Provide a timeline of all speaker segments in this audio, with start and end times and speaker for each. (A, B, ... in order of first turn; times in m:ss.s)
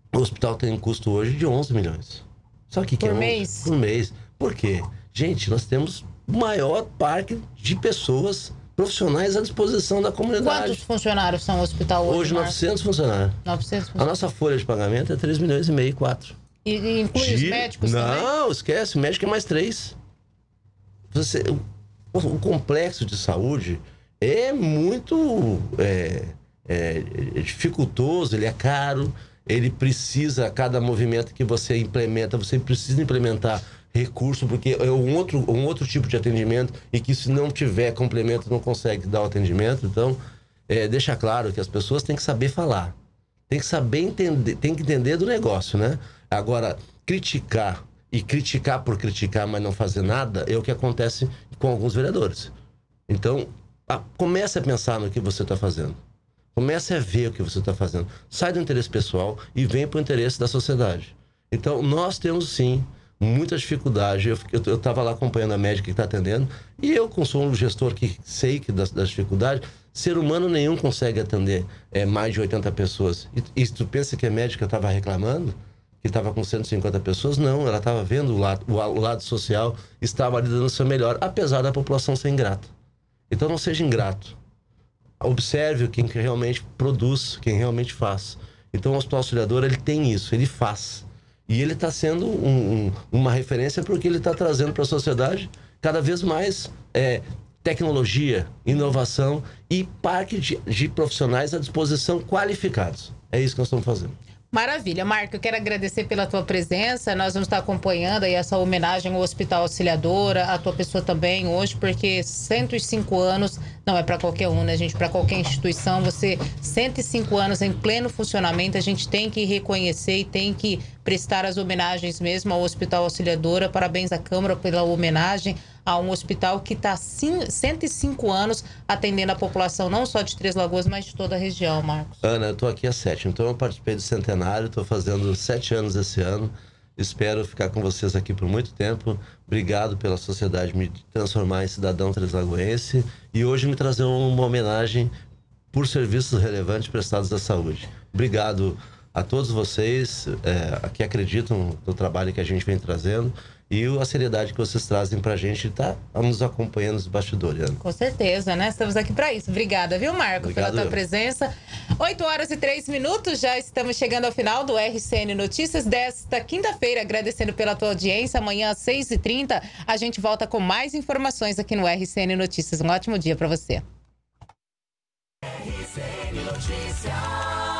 0:00.1-0:10.8 A
0:03.0-0:03.7 B
0:10.4-0:12.6 B
0:12.0-0:13.4 A
0:13.4-0:14.1 B
0:14.0-0:16.4 A
0:16.6-0:18.3 B
0:17.1-0:20.0 A
0:21.1-0:21.6 A
0:22.1-0:42.9 A
0:43.5-0:52.5 A
0:53.1-0:56.0 A
0:56.5-1:22.7 A
1:23.3-1:24.4 A
1:25.2-1:44.2 A
1:44.5-2:12.1 B
2:12.2-2:25.1 A
2:25.7-2:37.8 A
2:37.8-2:53.8 B
2:40.4-2:41.0 A